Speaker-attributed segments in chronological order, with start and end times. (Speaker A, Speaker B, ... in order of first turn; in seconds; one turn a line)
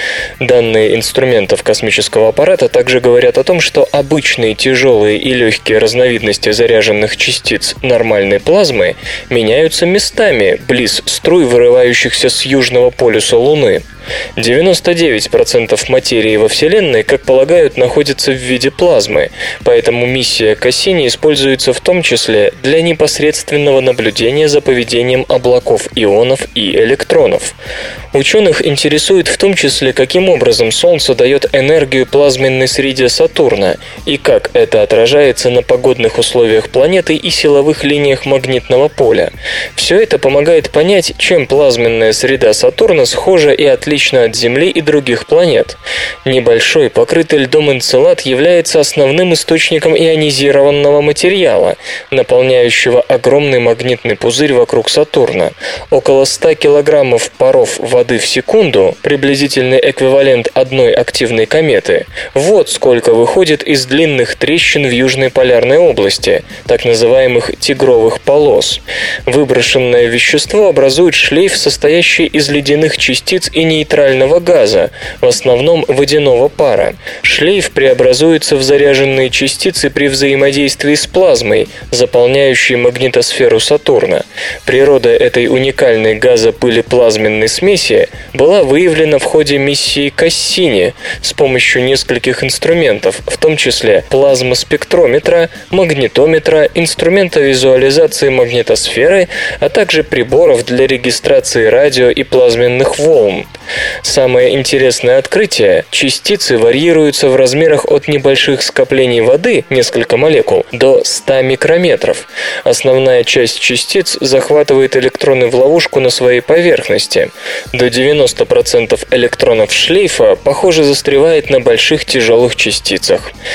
Speaker A: 0.4-13.8
Speaker A: 14.4-27.6
Speaker A: 28.1-103.5
Speaker A: 104.0-123.3